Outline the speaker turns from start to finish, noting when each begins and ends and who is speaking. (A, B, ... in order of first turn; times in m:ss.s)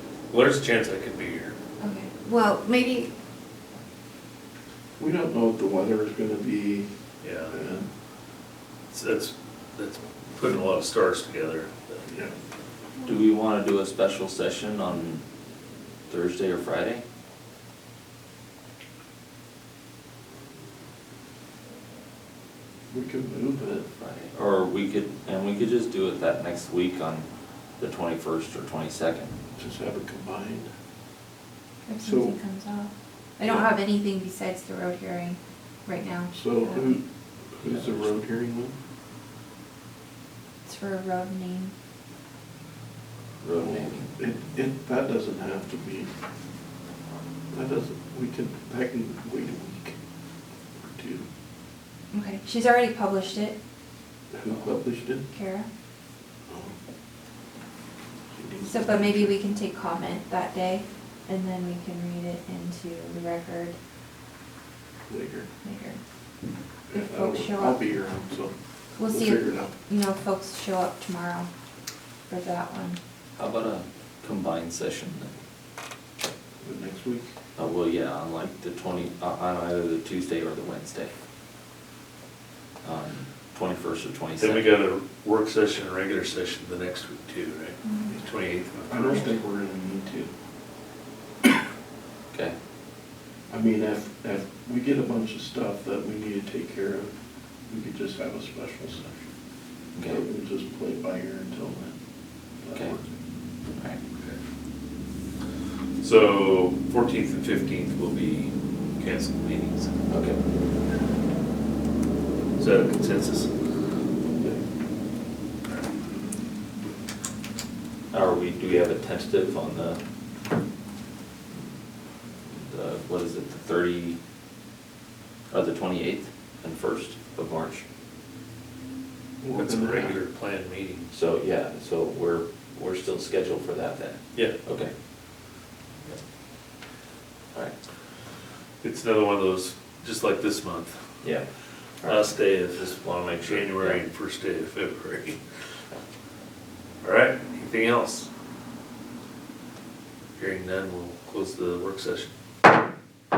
0:00.3-0:01.6 A
0:01.8-0:03.1 B
0:05.0-0:06.9 C
0:07.2-0:07.5 A
0:07.5-0:07.9 C
0:08.9-0:12.1 A
0:12.1-0:12.3 C
0:13.0-0:15.2 D
0:16.1-0:17.0 D
0:22.9-0:23.8 C
0:24.0-0:27.2 D
0:27.8-0:29.3 D
0:29.6-0:30.7 C
0:31.8-0:37.0 B
0:32.0-0:32.4 C
0:33.4-0:33.7 C
0:36.3-0:38.7 C
0:37.6-0:38.1 D
0:40.6-0:41.7 B
0:43.4-0:44.1 D
0:43.6-0:46.1 C
0:47.5-0:49.9 C
0:50.8-0:51.2 C
0:52.1-0:53.6 B
0:54.3-0:55.3 C
0:55.3-0:55.7 B
0:56.5-0:56.8 C
0:58.3-0:59.3 C
0:58.6-1:03.8 B
1:05.1-1:05.5 C
1:05.6-1:06.0 B
1:06.9-1:09.7 C
1:06.9-1:07.8 B
1:09.0-1:11.5 B
1:12.3-1:13.0 B
1:13.4-1:15.3 D
1:16.6-1:17.3 C
1:17.6-1:21.1 D
1:22.8-1:24.6 D
1:24.4-1:29.3 A
1:27.8-1:28.2 B
1:28.9-1:30.3 C
1:33.5-1:37.1 C
1:37.7-1:39.1 C
1:39.9-1:40.2 D
1:40.1-1:42.0 C
1:42.6-1:43.1 C
1:46.0-1:50.0 A
1:50.1-1:50.4 D
1:52.6-1:53.5 A
1:58.1-2:00.0 D
2:02.5-2:04.2 D
2:05.5-2:07.8 D
2:09.4-2:10.2 C
2:09.6-2:11.0 A
2:11.1-2:14.9 D
2:18.8-2:20.9 A
2:22.0-2:24.0 D
2:22.0-2:22.8 A
2:23.4-2:25.4 A
2:27.0-2:28.3 A
2:30.4-2:32.3 A